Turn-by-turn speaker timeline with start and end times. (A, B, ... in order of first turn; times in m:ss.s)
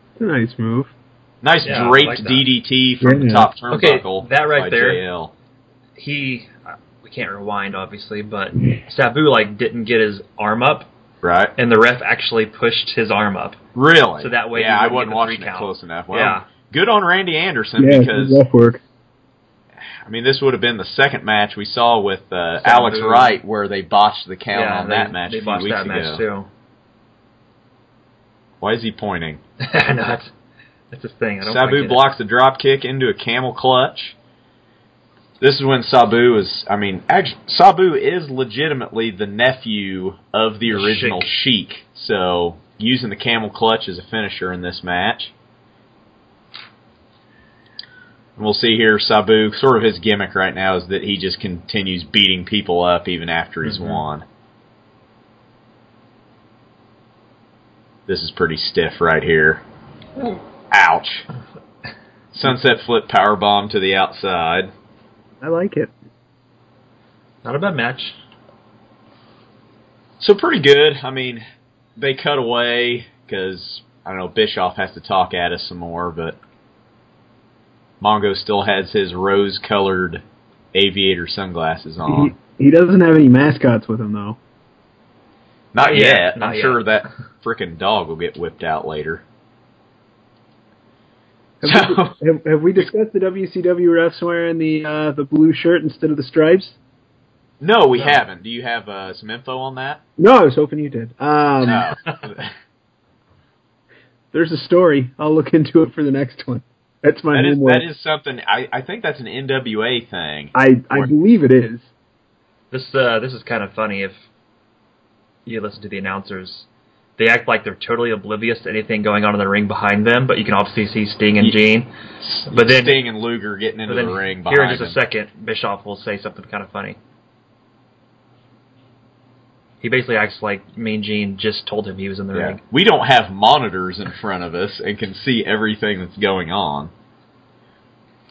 0:00.2-0:00.9 A
0:01.4-0:05.3 B
0:01.6-0:02.5 C
0:03.0-0:03.5 A
0:03.7-0:05.0 C
0:06.0-0:10.9 C
0:11.2-0:11.5 B
0:11.6-0:13.6 C
0:13.8-0:18.4 B
0:14.2-0:16.5 C
0:17.8-0:18.8 A
0:19.9-0:26.2 B
0:22.6-0:23.4 C
0:24.5-0:26.5 C
0:28.6-0:29.4 B
0:29.6-0:30.3 C
0:30.9-0:32.0 C
0:31.4-0:34.2 B
0:35.4-0:45.3 B
0:40.7-0:41.3 C
0:48.4-0:54.2 B
0:53.6-0:54.0 C
0:58.1-0:59.6 B
1:00.7-1:01.3 B
1:02.3-1:04.7 B
1:05.4-1:05.9 A
1:07.4-1:08.2 C
1:10.2-1:11.4 B
1:12.0-1:16.4 B
1:18.0-1:20.2 B
1:20.7-1:22.3 B
1:22.1-1:24.4 A
1:25.7-1:29.2 B
1:25.8-1:26.8 C
1:31.6-1:36.8 A
1:31.7-1:32.2 B
1:37.6-1:40.0 B
1:38.0-1:38.2 C
1:40.2-1:41.9 A
1:41.6-1:42.5 B
1:44.3-1:47.8 A
1:47.3-1:51.1 B
1:50.6-1:51.9 A
1:52.7-1:54.2 C
1:55.5-2:01.9 C
2:02.2-2:05.0 B
2:02.5-2:03.0 C
2:03.9-2:07.0 C
2:09.8-2:12.6 C
2:12.3-2:16.9 B